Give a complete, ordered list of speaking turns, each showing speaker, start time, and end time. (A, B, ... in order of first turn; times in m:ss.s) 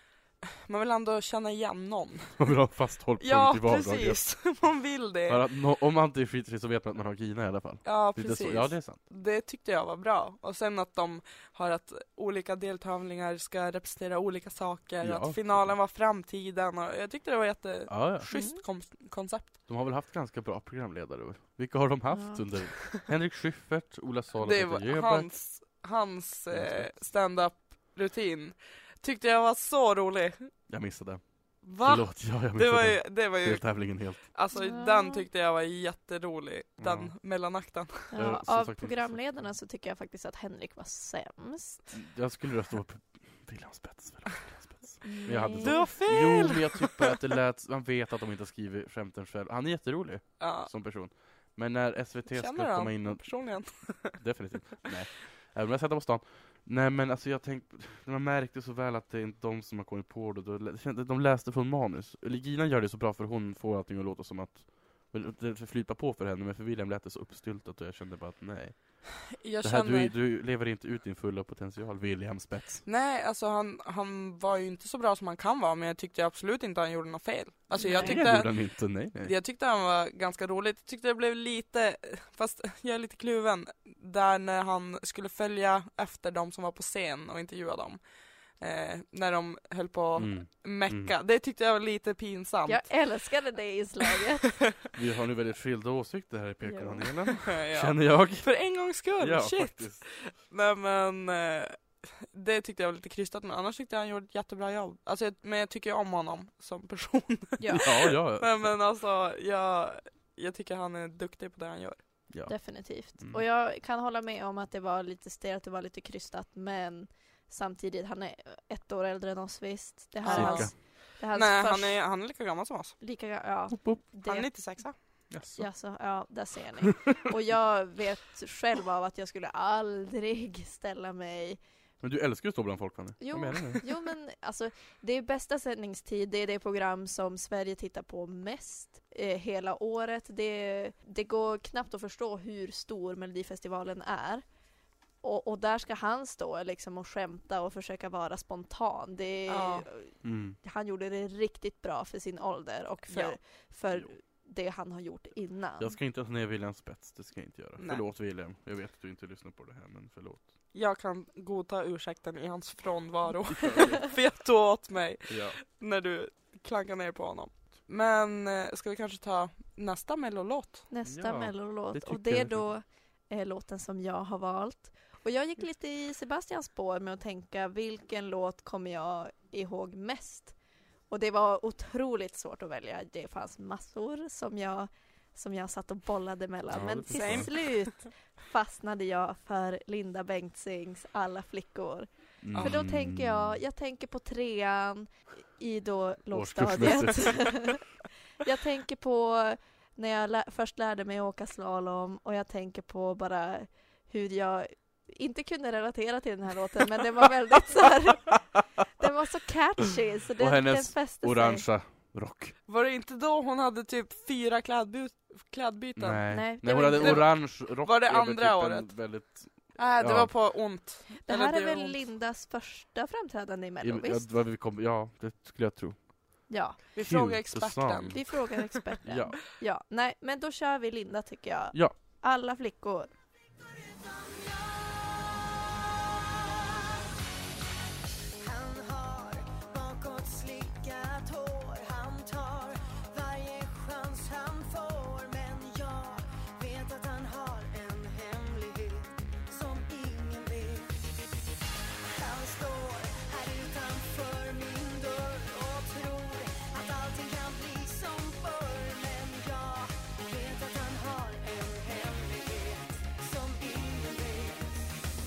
0:00.4-0:02.4 A
0:02.4-0:04.2 B
0:03.2-0:05.4 A
0:05.3-0:09.0 B
0:07.8-0:19.5 A
0:15.0-0:15.7 B
0:17.9-0:18.3 B
0:18.3-0:18.6 C
0:19.7-0:25.3 B
0:22.1-0:22.4 C
0:24.4-0:30.5 A
0:26.5-0:26.9 B
0:30.7-0:34.3 B
0:31.6-0:38.1 A
0:34.5-0:35.2 C
0:36.8-0:37.1 B
0:38.1-0:41.8 C
0:38.1-0:39.5 B
0:41.9-1:12.8 B
0:45.0-0:45.9 C
0:45.6-0:47.2 A
0:50.4-0:50.7 A
0:52.3-0:54.2 A
1:09.3-1:10.2 A
1:12.8-1:32.9 A
1:17.8-1:18.2 C
1:17.8-1:19.3 B
1:30.2-1:31.1 B
1:32.7-1:34.6 C
1:34.9-1:38.5 B
1:36.6-1:37.1 C
1:37.4-1:52.1 A
1:39.2-1:40.0 B
1:47.7-1:48.8 B
1:52.3-1:53.4 B
1:52.4-2:02.2 C
2:00.2-2:03.0 A
2:00.3-2:00.7 B
2:03.0-2:11.6 C
2:03.8-2:04.0 B
2:04.2-2:05.2 A
2:05.3-2:05.6 B
2:12.0-2:13.9 B
2:13.2-2:24.5 C
2:25.2-2:36.0 C
2:29.5-2:29.8 A
2:30.2-2:30.6 B
2:33.1-2:33.4 A
2:35.8-2:40.4 B
2:37.8-2:38.0 A
2:40.7-2:50.9 A
2:43.5-2:44.0 B
2:45.3-2:45.6 B
2:50.9-3:00.6 C
2:51.0-2:52.7 B
3:01.1-3:17.9 C
3:06.7-3:07.5 B
3:07.1-3:07.9 A
3:12.4-3:13.6 B
3:16.3-3:17.8 B
3:18.4-3:28.4 C
3:29.0-3:31.6 C
3:30.4-3:32.6 B
3:32.7-3:42.0 A
3:36.0-3:40.4 B
3:36.3-3:37.2 C
3:41.2-3:44.3 C
3:43.8-3:48.3 B
3:46.5-3:46.8 C
3:46.9-3:48.6 A
3:48.1-3:53.1 C
3:49.0-3:49.4 B
3:53.6-3:56.9 D
3:58.4-4:11.1 D
4:12.1-4:24.9 D